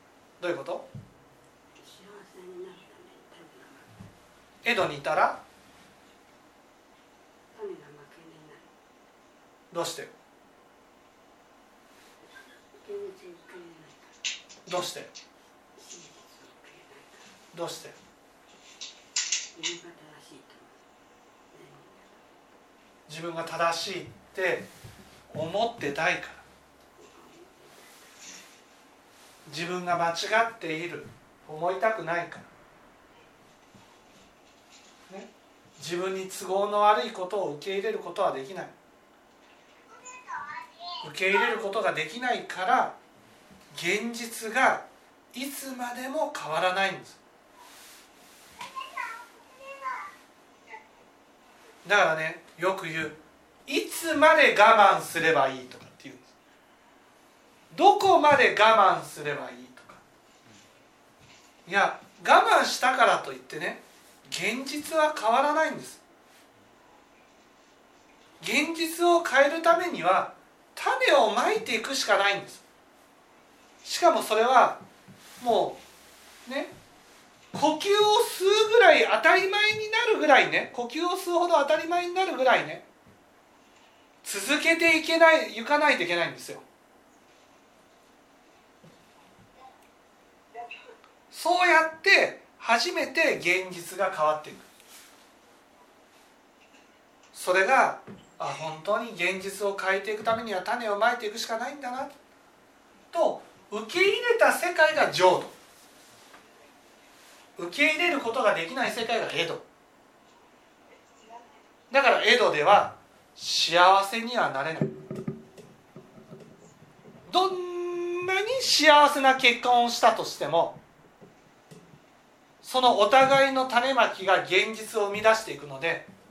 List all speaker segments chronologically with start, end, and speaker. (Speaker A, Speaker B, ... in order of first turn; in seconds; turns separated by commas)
Speaker A: 0.4-0.9, Speaker B: 1.8-4.0, Speaker A: 4.6-5.4, Speaker B: 7.5-8.7, Speaker A: 9.7-10.1, Speaker B: 12.7-14.1, Speaker A: 14.7-15.1, Speaker B: 15.8-17.3, Speaker A: 17.5-17.9, Speaker B: 19.5-20.8, Speaker B: 21.5-22.2, Speaker A: 23.1-24.7, Speaker A: 25.3-26.4, Speaker B: 26.9-28.3, Speaker A: 29.5-32.5, Speaker A: 35.1-38.7, Speaker A: 41.0-43.0, Speaker A: 43.7-47.2, Speaker A: 51.8-56.3, Speaker A: 57.7-60.0, Speaker A: 61.6-66.0, Speaker A: 68.4-72.6, Speaker A: 73.8-74.8, Speaker A: 75.4-75.8, Speaker A: 76.5-76.7, Speaker A: 77.5-82.8, Speaker A: 84.2-86.6, Speaker A: 91.3-94.7, Speaker A: 97.3-102.1, Speaker A: 103.1-105.5, Speaker A: 107.6-109.6, Speaker A: 111.9-114.9, Speaker A: 117.3-120.8, Speaker A: 122.6-126.1